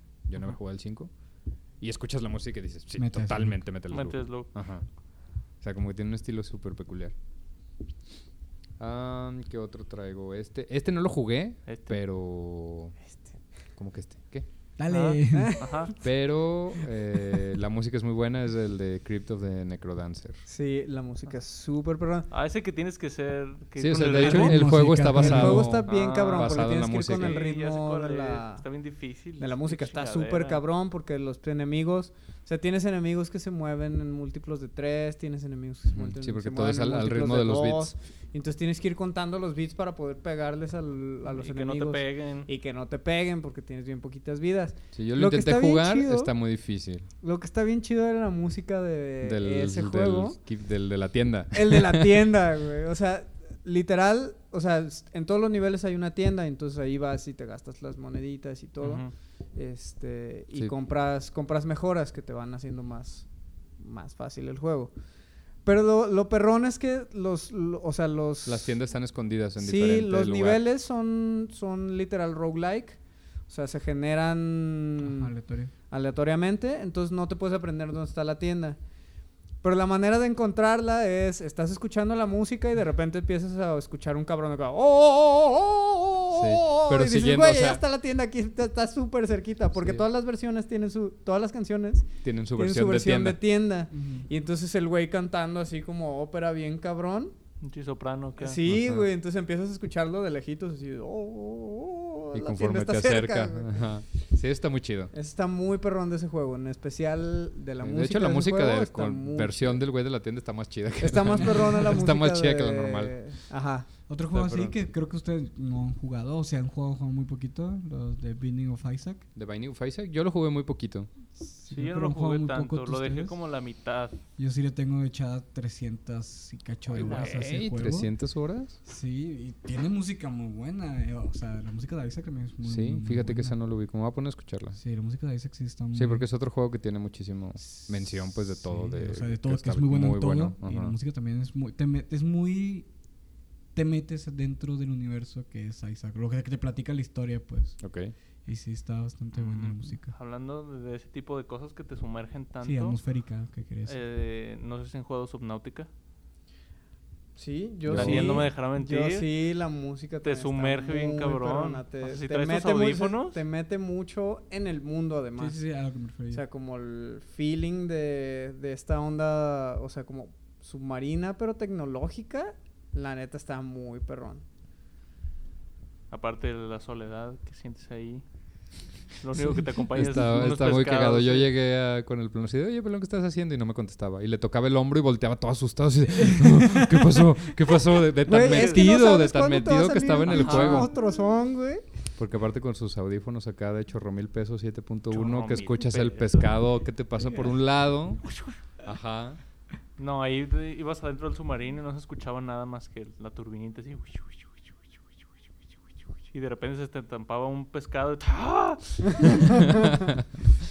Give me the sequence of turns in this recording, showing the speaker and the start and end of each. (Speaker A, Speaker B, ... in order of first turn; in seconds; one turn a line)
Speaker A: 0.3-1.1
Speaker A: 1.8-4.9
Speaker B: 2.9-3.6
Speaker C: 3.9-4.5
Speaker A: 5.6-7.1
Speaker A: 8.8-13.0
Speaker C: 11.7-11.9
Speaker A: 13.8-14.5
Speaker B: 14.8-15.6
Speaker C: 14.9-15.9
Speaker D: 15.3-16.0
Speaker A: 16.0-20.4
Speaker D: 20.5-22.3
Speaker C: 22.3-24.8
Speaker A: 23.8-27.4
Speaker B: 24.2-25.8
Speaker D: 25.1-28.7
Speaker C: 25.9-30.6
Speaker D: 29.4-46.3
Speaker A: 35.9-37.9
Speaker C: 41.3-42.5
Speaker A: 45.0-47.1
Speaker D: 47.2-50.4
Speaker A: 49.2-52.2
Speaker D: 51.5-63.3
Speaker C: 58.8-59.1
Speaker D: 63.8-64.9
Speaker D: 65.6-68.8
Speaker A: 68.5-70.6
Speaker D: 69.6-75.3
Speaker B: 75.0-75.7
Speaker D: 75.9-78.8
Speaker D: 79.6-97.3
Speaker A: 86.3-87.8
Speaker A: 89.8-90.0
Speaker A: 92.2-93.4
Speaker B: 93.9-94.3
Speaker C: 97.6-98.6
Speaker D: 98.4-103.9
Speaker A: 98.7-99.1
Speaker A: 102.3-105.1
Speaker D: 105.1-109.8
Speaker A: 107.8-113.2
Speaker D: 111.0-113.9
Speaker B: 111.3-112.0
Speaker B: 114.1-119.2
Speaker A: 114.3-114.8
Speaker A: 119.3-121.1
Speaker B: 121.4-123.4
Speaker C: 121.7-124.2
Speaker B: 124.4-128.1
Speaker A: 126.9-128.8
Speaker C: 126.9-127.4
Speaker B: 128.8-133.6
Speaker A: 132.6-134.8
Speaker B: 134.8-136.2
Speaker A: 135.9-140.9
Speaker B: 138.6-142.9
Speaker B: 143.7-147.8
Speaker A: 147.8-148.1
Speaker B: 148.4-150.1
Speaker C: 149.3-153.0
Speaker B: 152.6-154.0
Speaker C: 153.9-155.9
Speaker D: 157.4-165.6
Speaker A: 157.9-158.4
Speaker C: 157.9-159.3
Speaker C: 160.2-163.4
Speaker B: 165.4-166.4
Speaker D: 166.3-174.4
Speaker C: 176.1-178.2
Speaker C: 179.2-181.5
Speaker A: 179.9-190.9
Speaker D: 188.2-191.9
Speaker C: 188.4-188.8
Speaker C: 190.3-190.9
Speaker A: 192.2-199.4
Speaker C: 195.1-196.5
Speaker C: 200.0-204.6
Speaker C: 206.3-209.1